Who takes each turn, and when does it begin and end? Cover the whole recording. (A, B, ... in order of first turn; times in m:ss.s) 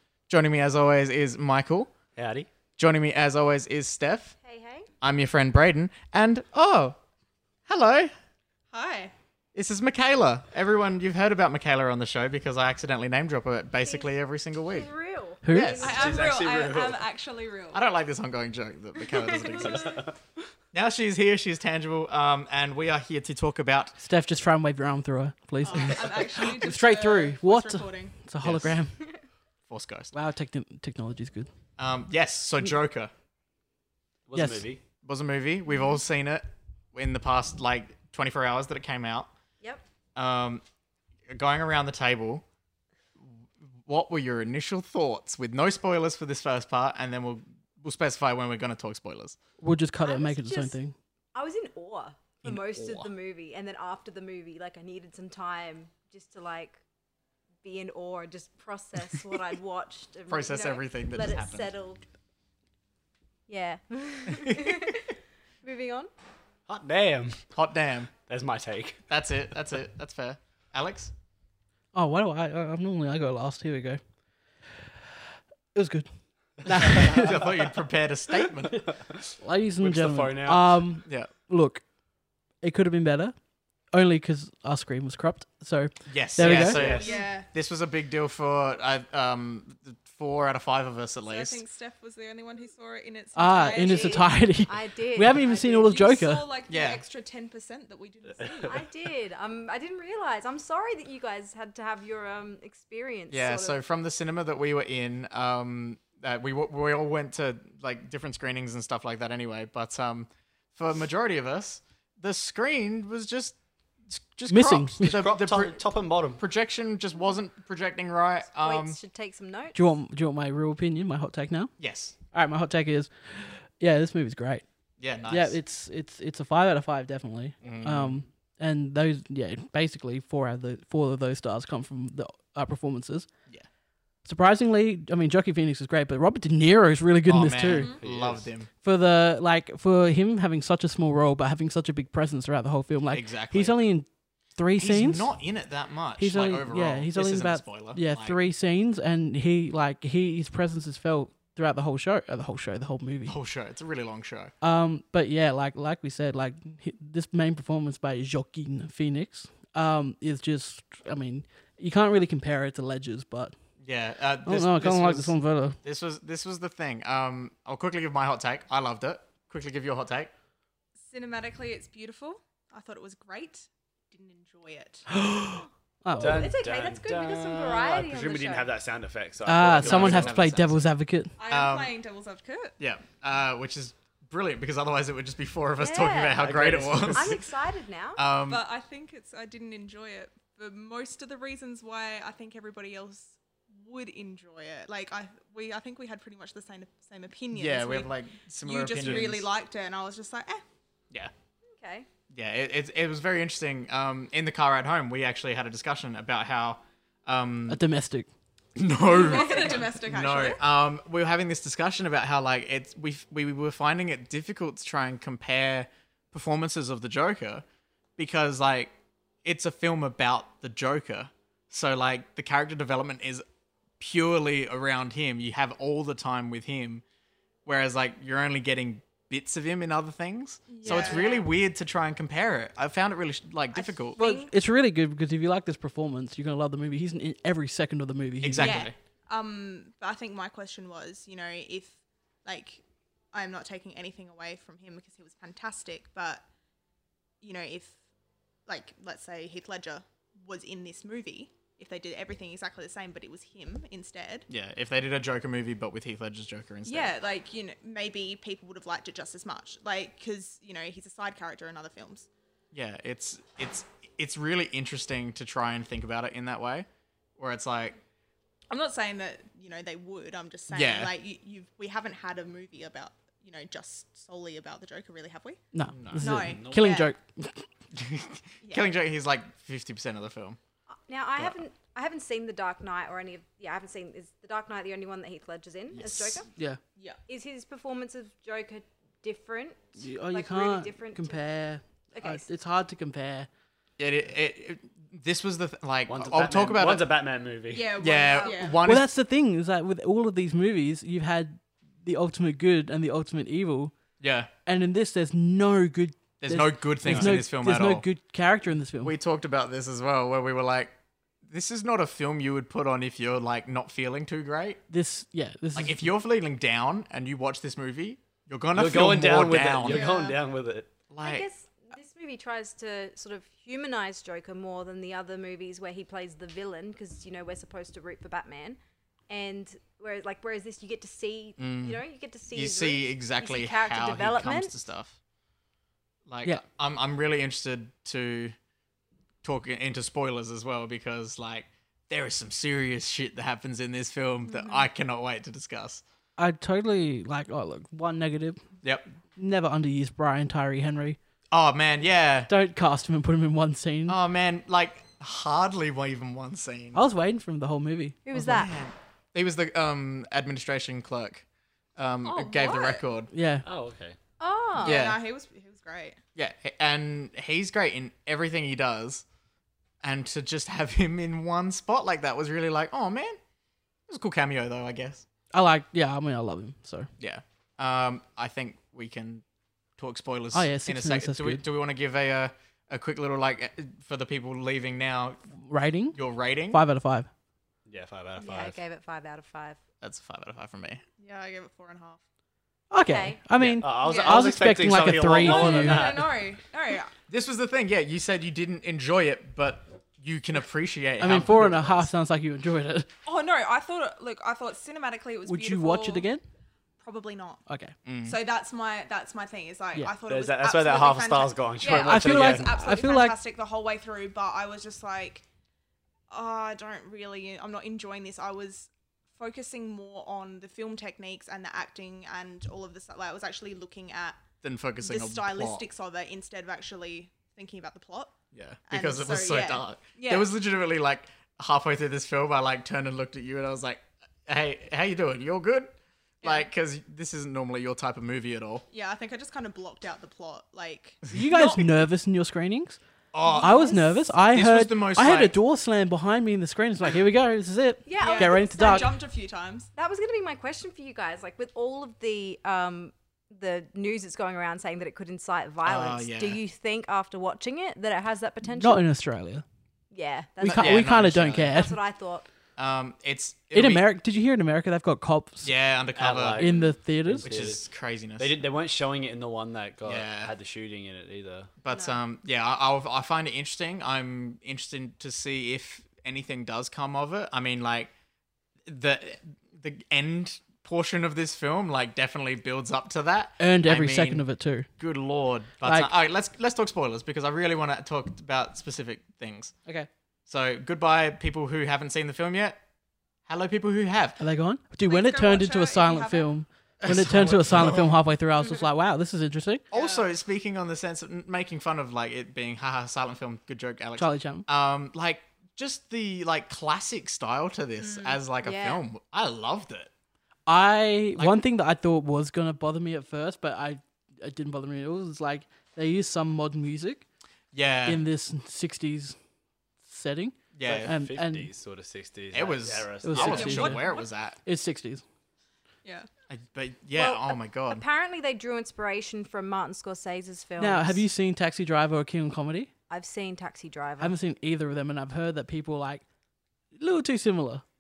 0:00.3-0:01.9 A
0:02.2-0:02.5 B
0:02.8-0:04.4 A
0:04.4-0:04.9 C
0:05.0-0:07.0 A
0:07.7-0:08.1 A
0:08.7-0:09.1 D
0:09.6-0:14.9 A
0:14.7-0:16.2 C
0:15.4-0:15.9 E
0:15.5-0:15.9 A
0:15.6-0:17.8 D
0:15.9-0:17.1 B
0:17.7-0:20.0 A
0:19.1-0:19.8 C
0:19.6-0:20.2 B
0:20.7-0:24.0 A
0:24.0-0:29.0 E
0:25.6-0:28.2 D
0:28.4-0:28.8 A
0:29.7-0:30.1 A
0:30.1-0:31.5 E
0:31.8-0:33.1 A
0:34.3-0:34.8 B
0:34.3-0:34.7 E
0:35.0-0:39.3 A
0:40.2-0:40.6 A
0:41.3-0:42.4 A
0:43.9-0:49.4 A
0:49.6-0:50.9 E
0:50.0-0:50.8 C
0:51.4-0:56.8 C
0:52.4-0:53.1 A
0:57.6-1:02.0 C
1:00.3-1:01.7 A
1:03.5-1:06.1 C
1:04.3-1:05.0 A
1:06.7-1:07.5 B
1:07.5-1:08.1 A
1:08.3-1:09.1 B
1:09.1-1:11.1 A
1:11.9-1:14.0 E
1:15.7-1:17.4 E
1:16.8-1:18.9 A
1:16.9-1:17.8 B
1:18.7-1:20.8 B
1:19.4-1:21.8 E
1:22.6-1:23.4 E
1:23.9-1:26.8 E
1:26.1-1:31.6 A
1:26.4-1:27.3 B
1:26.7-1:27.5 D
1:31.2-1:34.3 D
1:33.4-1:36.4 E
1:33.8-1:35.9 C
1:35.6-1:38.8 D
1:36.7-1:37.0 A
1:38.4-1:38.8 B
1:38.7-1:43.8 C
1:43.3-1:53.6 A
1:54.1-1:55.8 A
1:54.5-1:55.2 E
1:55.0-1:56.4 B
1:56.4-1:59.0 A
1:58.6-1:59.8 C
1:59.7-2:01.7 E
2:01.8-2:02.2 A
2:02.3-2:04.6 E
2:05.0-2:05.6 A
2:05.3-2:13.3 E
2:07.6-2:08.2 A
2:14.2-2:17.9 E
2:17.2-2:18.7 A
2:18.0-2:18.5 B
2:18.8-2:25.3 E
2:23.1-2:23.8 A
2:24.8-2:28.4 A
2:26.2-2:33.4 E
2:33.3-2:34.5 A
2:34.6-2:43.6 E
2:43.8-2:50.3 A
2:44.4-2:45.8 E
2:51.0-2:55.1 D
2:55.1-2:56.5 E
2:56.2-3:00.3 B
2:56.2-2:58.7 C
2:59.5-3:01.3 E
2:59.8-3:00.9 A
3:01.4-3:02.8 D
3:01.5-3:01.9 A
3:02.8-3:07.4 A
3:05.8-3:06.5 C
3:06.4-3:07.4 B
3:07.1-3:08.2 C
3:08.2-3:08.6 A
3:08.5-3:20.6 D
3:17.5-3:19.5 A
3:19.0-3:19.3 B
3:21.8-3:22.1 C
3:22.3-3:27.8 A
3:27.7-3:28.3 E
3:28.8-3:37.6 A
3:29.0-3:30.6 D
3:29.2-3:29.8 C
3:38.2-3:38.9 A
3:39.4-3:43.4 A
3:44.0-3:47.0 A
3:47.6-3:54.2 A
3:50.7-3:51.5 D
3:50.9-3:51.4 C
3:53.7-3:54.5 D
3:54.2-3:58.9 E
3:58.4-3:58.9 A
3:58.6-4:06.5 D
4:07.4-4:08.0 D
4:08.7-4:14.5 D
4:14.5-4:17.2 A
4:16.8-4:22.3 D
4:22.7-4:28.0 A
4:28.7-4:35.6 D
4:30.7-4:31.1 A
4:35.7-4:37.7 E
4:35.9-4:36.3 A
4:36.2-4:37.1 D
4:36.3-4:36.9 B
4:37.9-4:40.6 A
4:38.6-4:38.9 D
4:41.1-4:46.5 C
4:45.9-4:46.4 A
4:47.3-4:51.4 C
4:50.0-4:53.5 E
4:52.1-4:52.4 C
4:54.0-4:57.1 A
4:56.1-4:58.0 B
4:57.7-4:58.8 D
4:58.0-4:59.1 A
4:58.1-4:58.8 C
4:58.8-5:03.9 E
5:04.2-5:04.5 A
5:04.7-5:09.2 E
5:06.4-5:08.1 A
5:07.1-5:07.4 B
5:09.0-5:10.9 A
5:11.5-5:14.8 A
5:14.9-5:16.1 E
5:15.8-5:20.1 A
5:18.8-5:20.9 B
5:19.8-5:20.4 D
5:21.1-5:21.5 A
5:21.2-5:28.8 C
5:29.3-5:34.7 C
5:31.6-5:32.0 A
5:32.5-5:35.2 A
5:36.3-5:38.6 A
5:39.4-5:46.0 A
5:44.5-5:44.9 D
5:46.4-5:48.6 E
5:49.4-5:51.2 E
5:51.5-5:52.5 A
5:52.5-5:54.2 E
5:54.1-5:57.0 A
5:57.0-5:58.6 E
5:58.3-5:58.7 C
5:58.4-6:01.4 A
6:02.0-6:03.3 A
6:02.2-6:03.0 D
6:03.3-6:03.7 E
6:03.6-6:04.2 B
6:04.4-6:05.0 C
6:04.8-6:06.2 D
6:04.8-6:05.2 A
6:06.4-6:09.2 A
6:10.0-6:13.4 A
6:14.1-6:15.2 A
6:15.5-6:17.1 E
6:17.2-6:19.4 A
6:20.0-6:25.4 A
6:20.5-6:21.6 E
6:25.6-6:26.2 E
6:26.1-6:26.8 A
6:26.7-6:27.3 E
6:27.9-6:28.8 B
6:28.4-6:29.8 C
6:30.0-6:31.0 A
6:31.2-6:32.2 D
6:32.9-6:36.1 E
6:33.1-6:33.4 C
6:33.6-6:33.8 A
6:33.8-6:36.4 B
6:34.0-6:34.5 D
6:35.4-6:37.1 D
6:37.3-6:42.1 A
6:41.2-6:43.1 E
6:43.3-6:46.3 D
6:45.4-6:46.4 E
6:47.0-6:47.6 D
6:47.7-6:47.9 E
6:48.1-6:48.4 A
6:48.2-6:55.4 D
6:50.3-6:52.7 B
6:51.9-6:53.4 E
6:56.3-7:04.4 D
7:04.6-7:05.8 A
7:05.0-7:08.4 D
7:08.5-7:15.9 A
7:08.9-7:10.5 D
7:16.4-7:16.7 D
7:16.4-7:18.8 A
7:18.9-7:21.9 D
7:21.3-7:23.0 E
7:23.3-7:23.8 A
7:23.4-7:24.0 D
7:23.6-7:29.1 E
7:24.4-7:25.6 A
7:28.1-7:29.2 C
7:28.2-7:29.9 D
7:30.0-7:39.0 C
7:35.8-7:36.6 A
7:38.7-7:39.6 E
7:40.1-7:41.1 C
7:40.6-7:42.0 E
7:40.6-7:41.8 A
7:41.7-7:42.4 C
7:42.8-7:44.0 A
7:43.7-7:45.7 E
7:45.6-7:46.8 A
7:46.2-7:47.8 B
7:46.6-7:47.5 E
7:47.4-7:48.6 A
7:48.4-7:51.7 B
7:50.0-7:50.5 A
7:51.8-7:58.1 A
7:51.9-7:52.2 C
7:58.8-8:04.4 A
8:03.6-8:04.9 E
8:05.0-8:09.7 A
8:05.8-8:06.1 E
8:10.5-8:12.8 A
8:13.5-8:14.4 A
8:14.4-8:19.8 E
8:15.1-8:16.5 D
8:17.0-8:18.2 A
8:19.9-8:30.1 A
8:19.9-8:20.3 D
8:24.2-8:24.7 E
8:28.0-8:28.4 D
8:28.6-8:29.0 C
8:30.7-8:37.2 E
8:37.7-8:38.2 A
8:38.1-8:39.4 E
8:40.0-8:41.7 E
8:40.7-8:41.1 A
8:40.8-8:43.9 B
8:42.5-8:44.6 A
8:43.2-8:44.0 E
8:43.4-8:44.3 D
8:44.6-8:45.2 E
8:46.5-8:48.0 A
8:47.2-8:51.2 C
8:50.8-8:52.9 E
8:53.1-8:54.4 C
8:54.2-8:56.2 E
8:57.0-8:57.8 E